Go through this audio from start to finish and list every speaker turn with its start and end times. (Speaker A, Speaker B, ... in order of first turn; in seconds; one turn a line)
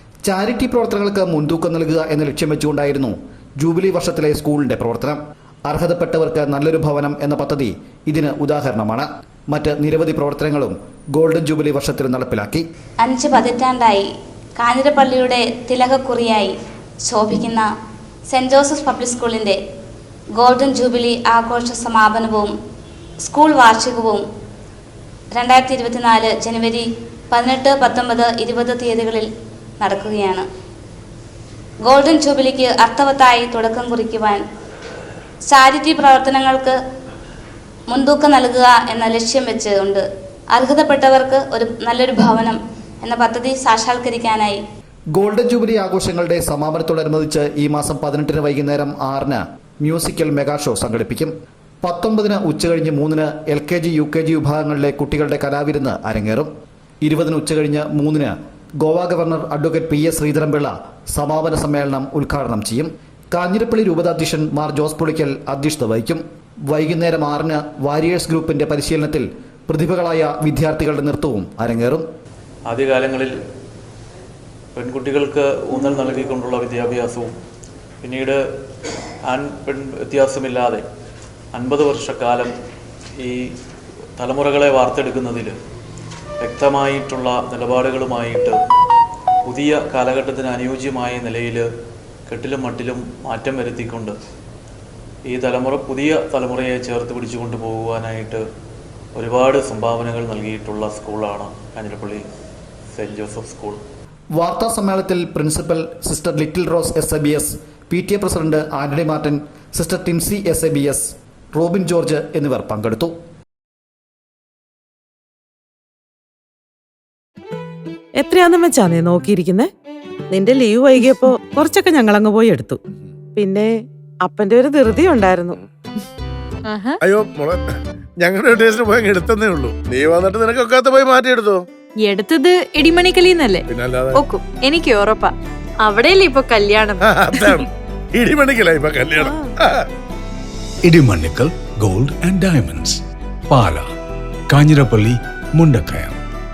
Speaker A: 0.2-12.6
Speaker B: 13.0-16.5
Speaker B: 17.1-17.7
Speaker B: 18.3-19.6
Speaker B: 20.4-22.5
Speaker B: 23.2-24.2
Speaker B: 25.4-29.3
Speaker B: 29.8-30.4
Speaker B: 31.8-34.4
Speaker B: 35.5-36.8
Speaker B: 37.9-44.6
Speaker A: 45.1-51.3
Speaker A: 51.8-56.5
Speaker A: 57.0-72.0
Speaker C: 72.7-73.3
Speaker C: 74.7-77.3
Speaker C: 78.0-78.4
Speaker C: 79.2-80.8
Speaker C: 81.5-82.5
Speaker C: 83.2-83.5
Speaker C: 84.2-85.5
Speaker C: 86.4-88.6
Speaker C: 89.5-91.7
Speaker C: 92.3-94.2
Speaker C: 95.3-98.4
Speaker C: 99.2-102.3
Speaker C: 102.9-103.8
Speaker A: 104.4-113.1
Speaker D: 118.2-119.7
Speaker D: 120.3-122.8
Speaker D: 123.3-123.7
Speaker D: 124.2-125.6
Speaker E: 126.6-127.0
Speaker F: 127.0-127.6
Speaker F: 128.2-131.6
Speaker E: 132.0-137.6
Speaker F: 133.7-134.2
Speaker F: 137.0-139.8
Speaker G: 140.8-143.0
Speaker G: 143.5-143.9
Speaker G: 144.5-146.2